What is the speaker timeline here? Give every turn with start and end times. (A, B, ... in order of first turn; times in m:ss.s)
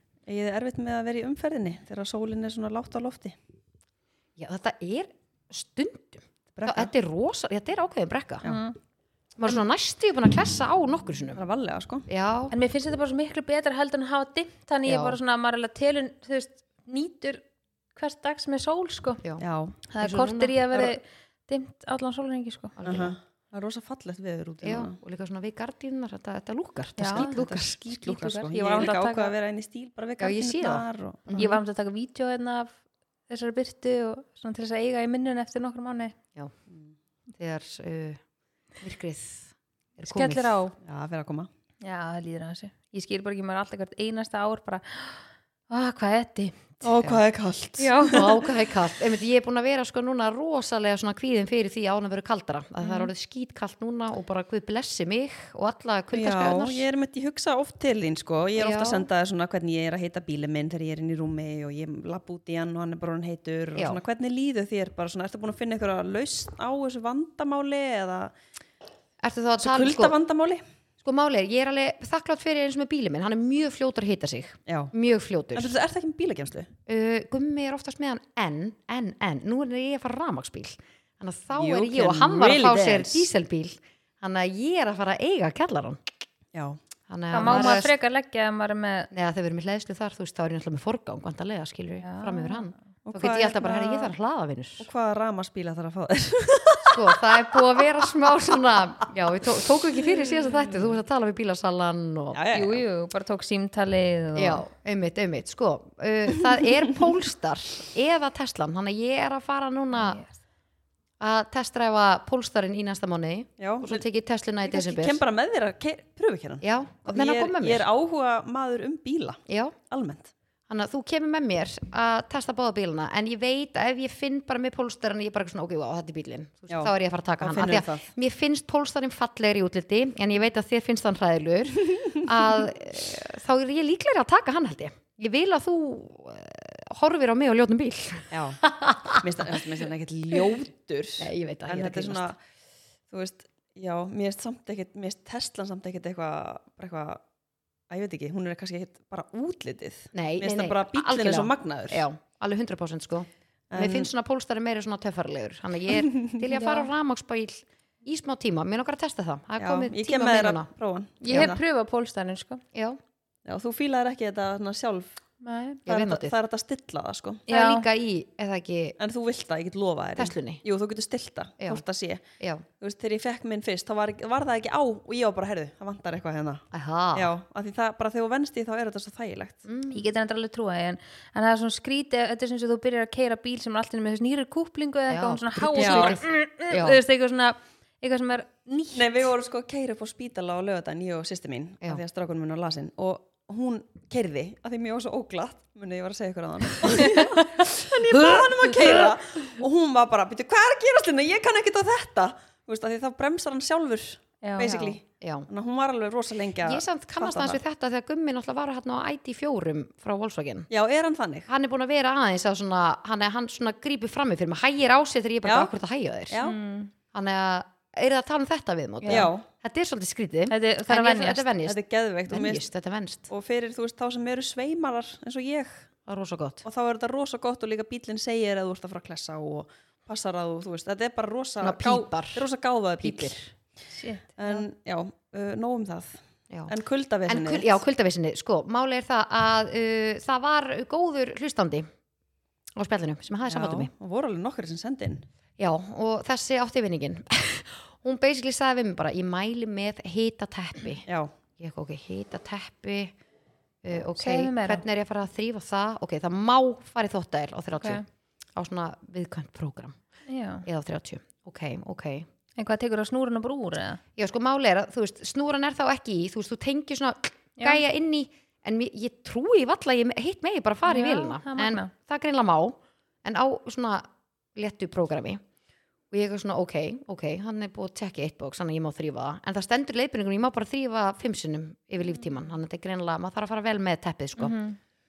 0:00.3-0:03.4 A
0:04.4-0:08.5 B
0:06.6-0:06.9 A
0:08.4-0:08.8 C
0:09.4-0:11.4 B
0:11.4-0:12.1 A
0:12.1-0:12.5 B
0:12.5-0:17.4 C
0:14.9-0:15.2 B
0:18.0-0:19.2 C
0:19.4-0:19.8 A
0:19.9-0:22.8 C
0:20.0-0:20.6 B
0:22.8-0:23.2 B
0:22.8-0:25.0 A
0:24.6-0:27.7 B
0:27.0-0:29.3 C
0:27.1-0:31.4 A
0:30.2-0:31.6 B
0:31.4-0:32.8 C
0:33.3-0:36.2 C
0:37.4-0:38.2 B
0:38.8-0:40.6 B
0:40.1-0:40.8 C
0:40.8-0:41.5 A
0:41.8-0:46.8 C
0:46.8-0:48.5 A
0:47.8-0:48.3 C
0:48.1-0:56.8 B
0:52.8-0:53.1 C
0:56.1-1:08.3 A
0:58.6-0:59.1 B
1:03.8-1:04.0 B
1:09.2-1:10.2 B
1:09.6-1:10.6 A
1:11.0-1:15.7 B
1:14.7-1:14.9 A
1:15.5-1:16.7 A
1:16.9-1:26.0 B
1:21.6-1:23.3 A
1:27.1-1:27.9 B
1:27.3-1:29.1 C
1:27.4-1:27.9 A
1:29.1-1:34.9 B
1:32.0-1:32.7 C
1:33.0-1:34.1 A
1:34.8-1:38.6 A
1:36.8-1:42.4 B
1:42.3-1:42.8 A
1:42.5-1:44.6 C
1:44.4-1:50.2 B
1:50.0-1:50.3 C
1:51.2-1:55.2 B
1:53.6-1:54.0 A
1:54.7-1:59.4 A
1:56.6-1:57.8 B
1:59.5-1:59.8 B
1:59.9-2:00.3 A
2:00.7-2:19.5 B
2:06.7-2:08.1 A
2:18.3-2:22.4 A
2:21.2-2:22.3 B
2:23.1-2:27.2 A
2:27.9-2:32.0 A
2:30.1-2:40.7 B
2:33.7-2:34.1 A
2:36.0-2:36.4 A
2:36.5-2:36.9 C
2:39.6-2:41.6 A
2:41.2-2:42.6 C
2:41.3-2:41.5 B
2:42.7-2:43.0 B
2:43.4-2:45.1 A
2:45.4-2:45.8 C
2:45.9-2:46.4 B
2:45.9-2:47.4 A
2:47.5-2:49.0 B
2:47.5-2:47.9 C
2:49.0-2:52.2 A
2:50.2-2:50.6 B
2:52.8-2:56.6 A
2:56.7-2:57.3 B
2:57.1-2:59.6 A
2:59.7-3:00.0 B
2:59.9-3:09.3 C
3:05.1-3:07.0 B
3:05.8-3:06.2 A
3:08.9-3:27.6 A
3:18.1-3:19.1 B
3:24.4-3:25.0 C
3:24.7-3:25.5 B
3:26.6-3:30.7 B
3:30.7-3:31.5 A
3:31.5-3:36.4 B
3:35.4-3:35.7 A
3:36.3-3:36.6 A
3:36.4-3:36.9 C
3:37.1-3:41.8 B
3:39.0-3:39.3 C
3:39.1-3:39.5 A
3:40.5-3:41.4 C
3:41.7-3:42.7 A
3:42.3-3:43.3 B
3:43.3-3:45.9 A
3:46.1-3:46.6 B
3:46.6-3:53.5 A
3:51.6-3:52.4 B
3:53.0-3:53.4 B
3:53.9-3:54.6 C
3:54.4-3:57.8 A
3:57.3-4:01.9 B
4:02.8-4:03.9 B
4:03.5-4:05.2 A
4:05.6-4:11.0 B
4:11.1-4:11.3 A
4:11.6-4:13.1 B
4:13.8-4:18.0 B
4:14.2-4:14.8 C
4:17.8-4:18.0 C
4:18.6-4:20.0 B
4:20.3-4:20.6 C
4:20.6-4:22.3 B
4:22.6-4:24.0 C
4:24.2-4:35.4 B
4:30.8-4:31.9 C
4:36.1-4:44.6 B
4:44.4-4:44.8 C